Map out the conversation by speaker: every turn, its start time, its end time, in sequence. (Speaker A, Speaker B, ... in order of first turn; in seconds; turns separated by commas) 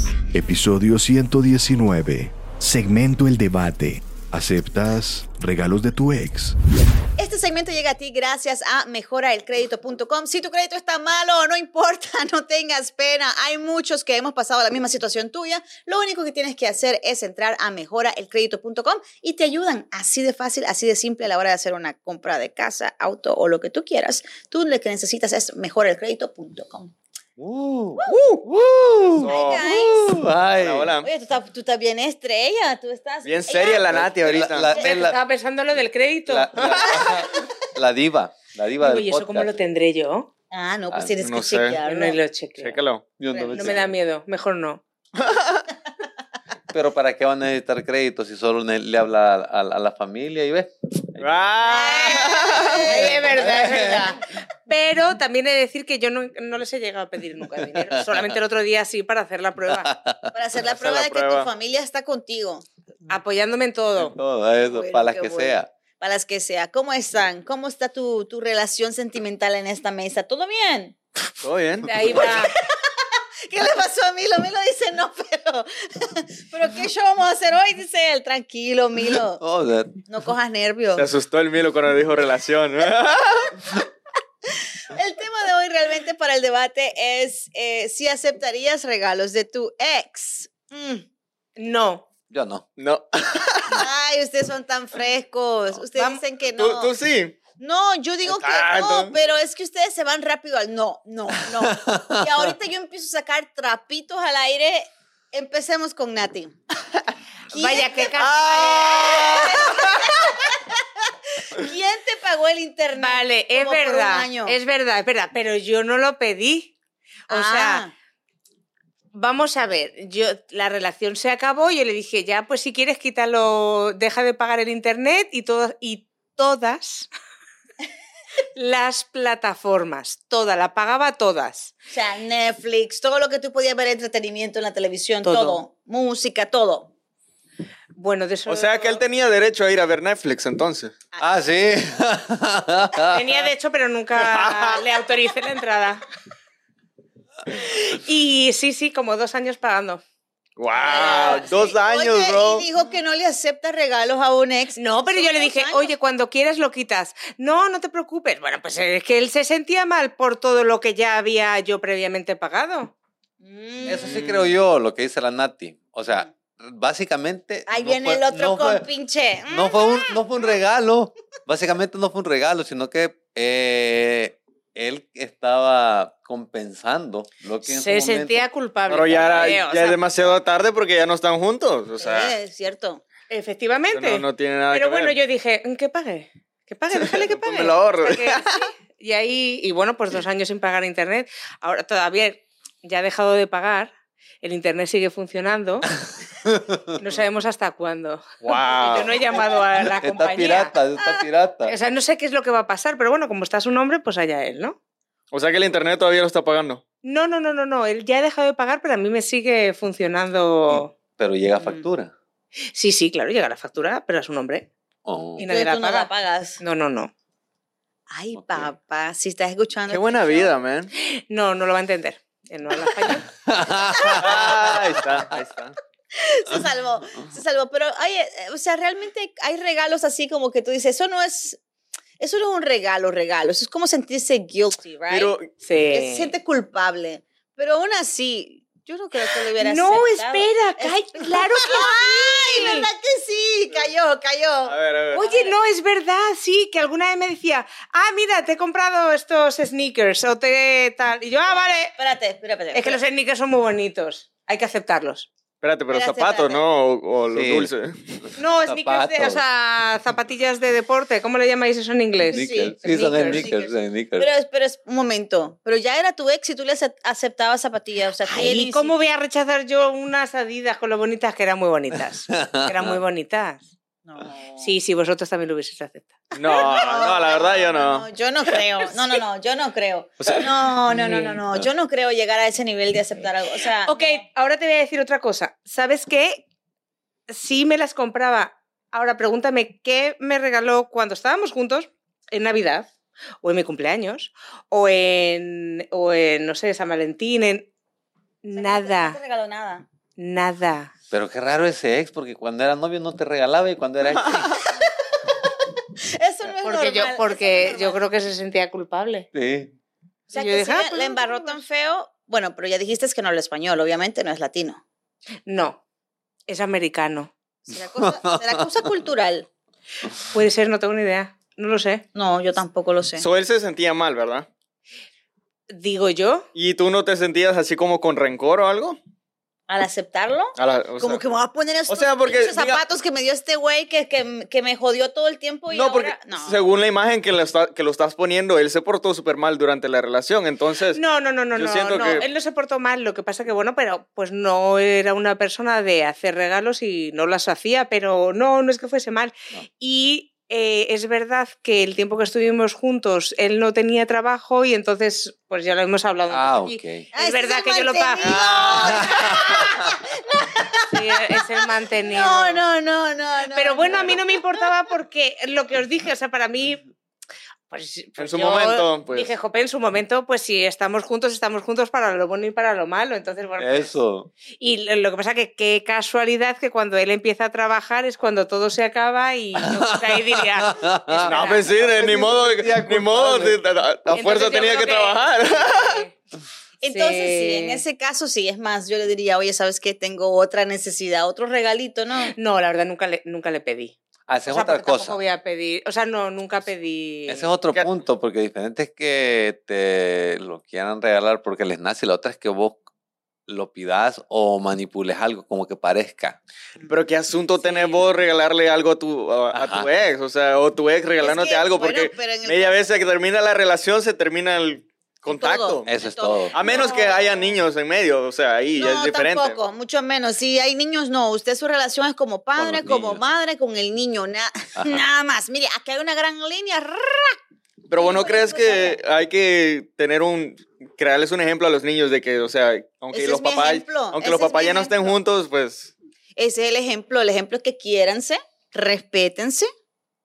Speaker A: 0.3-6.6, Speaker B: 7.2-26.9, Speaker C: 27.4-30.9, Speaker B: 28.0-28.4, Speaker B: 29.2-30.2, Speaker D: 29.2-29.7, Speaker D: 30.6-31.1, Speaker B: 31.0-34.0, Speaker D: 33.2-34.7, Speaker C: 33.9-35.2, Speaker E: 34.8-37.0, Speaker C: 36.3-39.5, Speaker E: 38.8-40.3, Speaker B: 40.5-42.2, Speaker C: 40.9-41.2, Speaker D: 41.2-41.8, Speaker E: 41.9-42.8, Speaker D: 42.6-43.0, Speaker C: 43.2-43.9, Speaker B: 43.3-43.7, Speaker E: 43.5-44.8, Speaker D: 45.2-45.6, Speaker C: 46.7-51.3, Speaker D: 51.2-53.0, Speaker B: 51.6-54.0, Speaker E: 52.6-59.9, Speaker C: 52.9-54.2, Speaker C: 57.6-58.4, Speaker C: 59.7-60.3, Speaker B: 60.3-62.6, Speaker D: 60.6-61.5, Speaker E: 63.1-64.2, Speaker C: 64.0-65.7, Speaker B: 64.7-71.0, Speaker D: 71.4-71.9, Speaker E: 71.8-72.5, Speaker B: 72.1-72.7, Speaker B: 73.5-79.4, Speaker C: 79.4-80.0, Speaker B: 80.1-81.1, Speaker D: 81.0-83.6, Speaker B: 84.9-91.0, Speaker E: 91.6-92.0, Speaker C: 92.3-92.7, Speaker D: 92.8-93.8, Speaker B: 93.7-96.9, Speaker E: 96.0-96.2, Speaker D: 96.6-97.4, Speaker B: 97.6-110.9, Speaker D: 98.2-99.2, Speaker C: 101.5-102.5, Speaker E: 107.5-109.2, Speaker D: 108.2-110.1, Speaker B: 111.4-114.6, Speaker E: 112.9-116.7, Speaker E: 117.3-117.9, Speaker B: 117.3-117.9, Speaker E: 119.1-127.1, Speaker E: 128.6-131.7, Speaker B: 131.9-136.9, Speaker E: 135.2-135.6, Speaker E: 138.0-139.0, Speaker D: 138.5-140.9, Speaker C: 141.2-143.4, Speaker E: 143.1-146.0, Speaker D: 144.2-144.8, Speaker E: 147.5-150.0, Speaker D: 150.6-152.7, Speaker B: 150.8-155.9, Speaker E: 150.8-151.5, Speaker E: 154.8-162.9, Speaker B: 163.4-164.5, Speaker C: 163.8-168.9, Speaker D: 164.0-164.3, Speaker B: 167.7-170.2, Speaker C: 169.5-178.5, Speaker E: 177.7-180.0, Speaker D: 178.9-182.3, Speaker C: 179.1-179.6, Speaker B: 182.0-183.0, Speaker E: 183.3-195.9, Speaker D: 183.9-185.2, Speaker D: 187.1-188.4, Speaker C: 196.4-196.8, Speaker E: 197.0-200.7, Speaker D: 198.4-199.2, Speaker C: 199.8-201.8, Speaker E: 201.7-204.8, Speaker D: 205.3-206.8, Speaker E: 207.0-210.9, Speaker C: 211.2-212.1, Speaker E: 212.7-214.7, Speaker C: 215.1-215.4, Speaker E: 215.4-217.1, Speaker B: 215.4-216.6, Speaker B: 218.1-220.5, Speaker C: 218.3-218.7, Speaker D: 219.9-220.9, Speaker E: 221.0-223.3, Speaker C: 223.4-225.0, Speaker B: 224.0-224.4, Speaker D: 224.2-225.8, Speaker B: 226.2-231.6, Speaker B: 232.2-235.3, Speaker D: 235.1-235.5, Speaker E: 235.6-236.3, Speaker B: 235.9-245.5, Speaker E: 239.6-242.9, Speaker D: 244.7-245.3, Speaker E: 245.1-251.9, Speaker B: 251.5-253.0, Speaker E: 252.7-255.3, Speaker D: 255.6-258.0, Speaker B: 255.9-256.6, Speaker C: 257.3-257.7, Speaker C: 258.2-259.4, Speaker E: 258.4-263.5, Speaker C: 262.3-264.3, Speaker B: 262.3-268.9, Speaker E: 268.2-273.7, Speaker C: 272.3-273.0, Speaker B: 274.1-274.7, Speaker E: 274.6-276.2, Speaker D: 276.4-278.1, Speaker B: 276.5-284.2, Speaker D: 280.2-280.5, Speaker E: 280.9-281.4, Speaker E: 283.8-286.4, Speaker E: 287.3-292.9, Speaker E: 293.4-297.7, Speaker E: 298.4-299.2, Speaker B: 298.5-299.9, Speaker E: 300.2-300.9, Speaker C: 301.1-304.6, Speaker B: 304.5-304.9, Speaker B: 306.1-308.0, Speaker E: 306.6-309.3, Speaker C: 309.3-309.7, Speaker B: 310.3-314.8, Speaker E: 310.3-311.6, Speaker E: 315.5-315.8, Speaker E: 316.5-317.3, Speaker B: 317.7-319.5, Speaker C: 318.0-318.8, Speaker E: 320.3-322.0, Speaker B: 322.1-323.3, Speaker D: 323.2-324.5, Speaker E: 325.7-326.5, Speaker D: 326.6-329.0, Speaker B: 329.7-336.6, Speaker D: 330.6-331.2, Speaker D: 331.9-332.8, Speaker D: 335.7-341.0, Speaker E: 340.9-358.6, Speaker D: 341.5-342.3, Speaker C: 356.3-357.1, Speaker B: 357.1-361.4, Speaker D: 358.2-359.1, Speaker C: 358.8-359.8, Speaker E: 360.9-362.6, Speaker B: 362.0-364.2, Speaker E: 363.5-366.8, Speaker E: 367.7-373.9, Speaker D: 368.2-369.3, Speaker C: 373.6-374.3, Speaker E: 374.6-381.7, Speaker C: 379.7-383.6, Speaker D: 381.2-386.1, Speaker E: 384.1-386.1, Speaker B: 386.8-392.3, Speaker E: 386.9-387.8, Speaker E: 392.2-393.9, Speaker C: 394.3-395.2, Speaker E: 394.5-397.5, Speaker C: 397.3-402.8, Speaker C: 403.5-406.4, Speaker D: 406.9-415.9, Speaker E: 407.6-407.9, Speaker C: 409.5-409.9, Speaker B: 411.2-412.8, Speaker B: 415.3-417.5, Speaker C: 415.9-416.6, Speaker D: 416.5-419.6, Speaker B: 418.8-427.4, Speaker C: 422.6-423.2, Speaker C: 424.8-425.1, Speaker D: 427.9-435.9, Speaker B: 427.9-429.0, Speaker B: 433.1-435.2, Speaker B: 436.4-439.7